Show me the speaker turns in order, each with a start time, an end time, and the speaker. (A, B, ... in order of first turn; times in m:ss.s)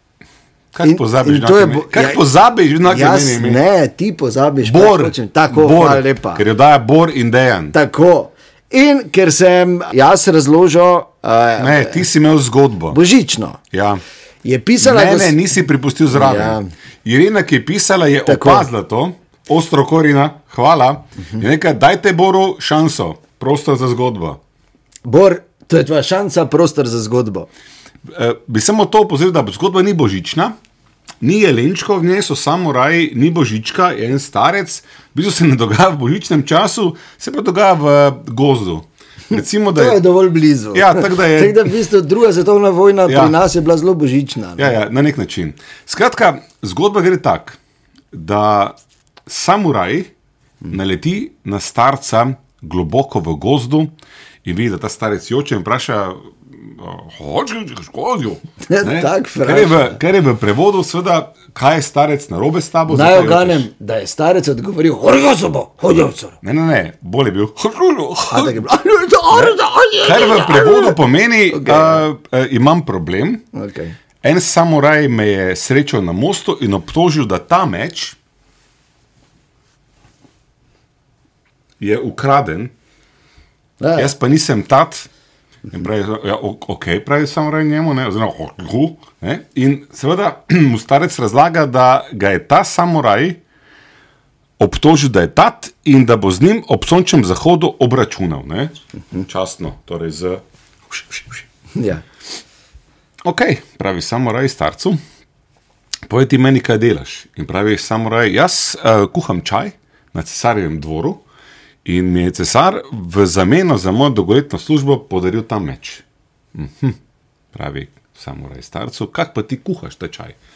0:00.7-0:03.6 A
0:00.8-0:02.2 B
0:02.8-0:06.4 B
0:04.6-0:07.7 A
0:07.7-0:12.1 B
0:11.6-0:13.0 A
0:12.9-0:13.6 B
0:13.7-0:14.0 A
0:14.4-0:15.4 B
0:14.8-0:24.4 A
0:16.1-0:16.7 B
0:18.2-0:18.7 B
0:25.0-0:27.5 B
0:28.1-0:30.5 A
0:31.2-0:40.0 A
0:39.7-0:44.8 B
0:40.7-0:41.7 A
0:43.1-0:43.4 A
0:44.6-0:47.6 A
0:48.1-0:50.1 A
0:50.7-0:53.9 A
0:54.4-1:03.6 A
0:58.6-1:00.0 B
1:02.9-1:06.4 B
1:06.4-1:08.6 A
1:08.3-1:11.0 B
1:09.3-1:13.4 A
1:11.5-1:12.0 B
1:13.5-1:13.9 B
1:14.2-1:18.2 A
1:21.8-1:22.7 A
1:23.8-1:24.1 B
1:24.0-1:25.1 A
1:25.7-1:33.4 A
1:34.6-1:41.4 A
1:41.7-1:42.0 B
1:43.2-1:45.0 A
1:46.1-1:51.2 A
1:51.8-1:57.0 A
1:57.5-2:00.4 A